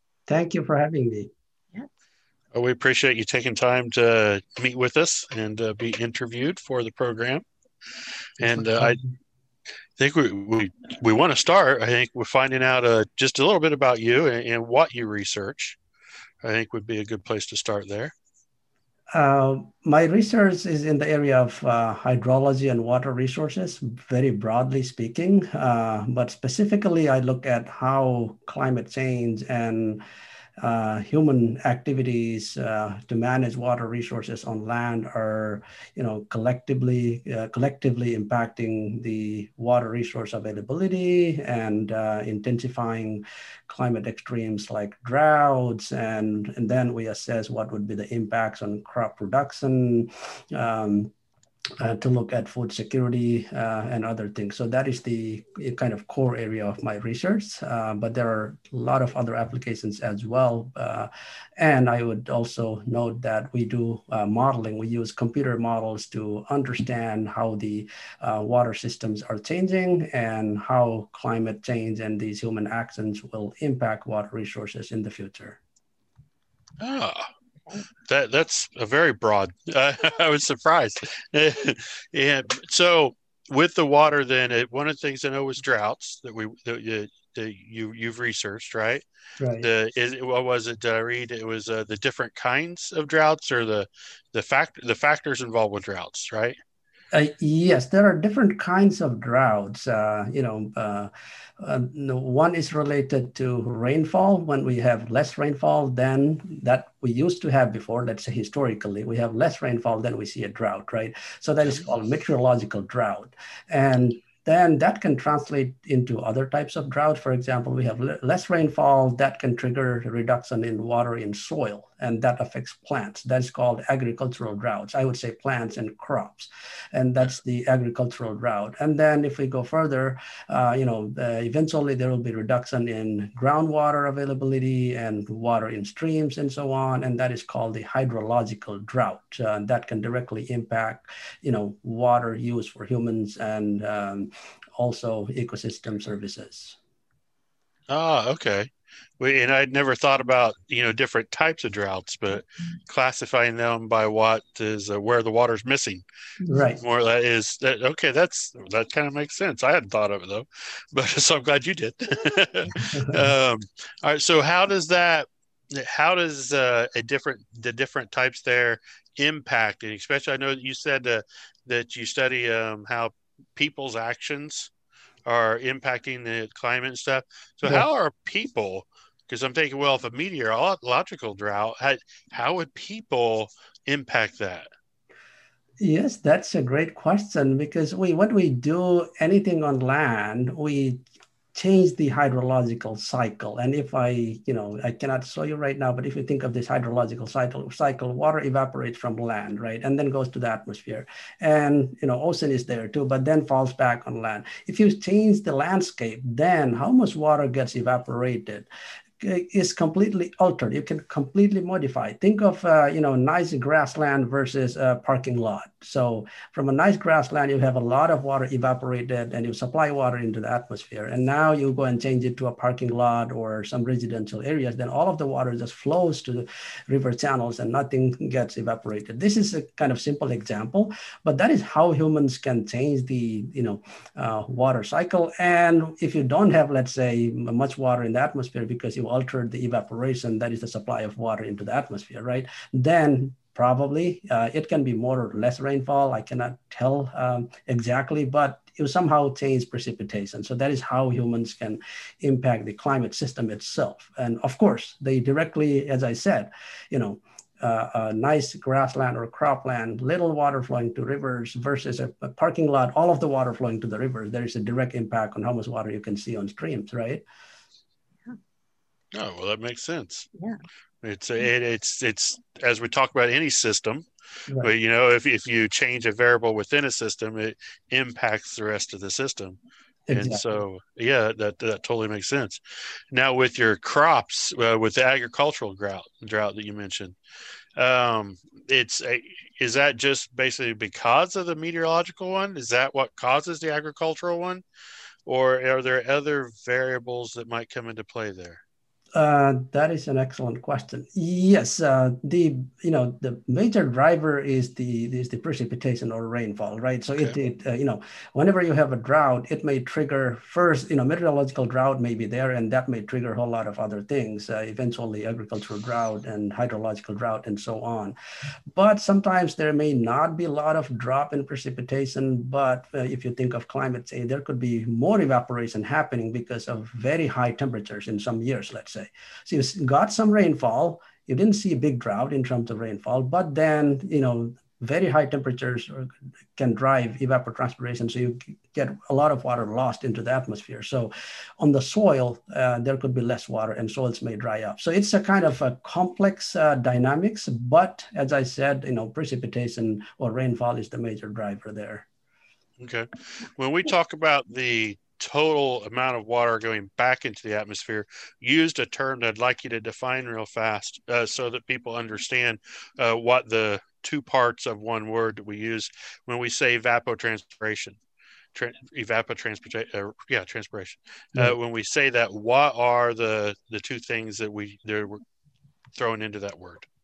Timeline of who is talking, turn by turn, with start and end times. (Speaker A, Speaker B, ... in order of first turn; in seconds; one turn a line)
Speaker A: 0.3-1.3
Speaker B: 2.5-7.4
Speaker B: 8.4-9.0
Speaker A: 8.6-8.9
Speaker B: 10.0-15.8
Speaker B: 16.4-18.1
Speaker A: 19.1-30.0
Speaker A: 30.6-51.1
Speaker A: 51.8-75.6
Speaker B: 76.8-77.3
Speaker B: 78.1-89.0
Speaker A: 89.4-89.7
Speaker B: 89.6-96.6
Speaker A: 97.1-146.8
Speaker B: 147.9-156.0
Speaker A: 156.4-156.8
Speaker B: 156.8-174.7
Speaker A: 162.9-163.2
Speaker B: 175.2-184.7
Speaker A: 185.8-191.0
Speaker A: 191.5-208.7
Speaker A: 209.2-267.2
Speaker B: 269.1-270.3
Speaker B: 271.0-274.0
Speaker B: 274.6-279.6
Speaker A: 280.1-280.6
Speaker B: 280.1-282.6
Speaker B: 283.1-287.1
Speaker B: 287.8-294.6
Speaker B: 295.2-298.6
Speaker A: 299.1-318.1
Speaker A: 318.7-352.1
Speaker B: 352.8-368.0
Speaker B: 368.5-375.2
Speaker B: 375.9-376.9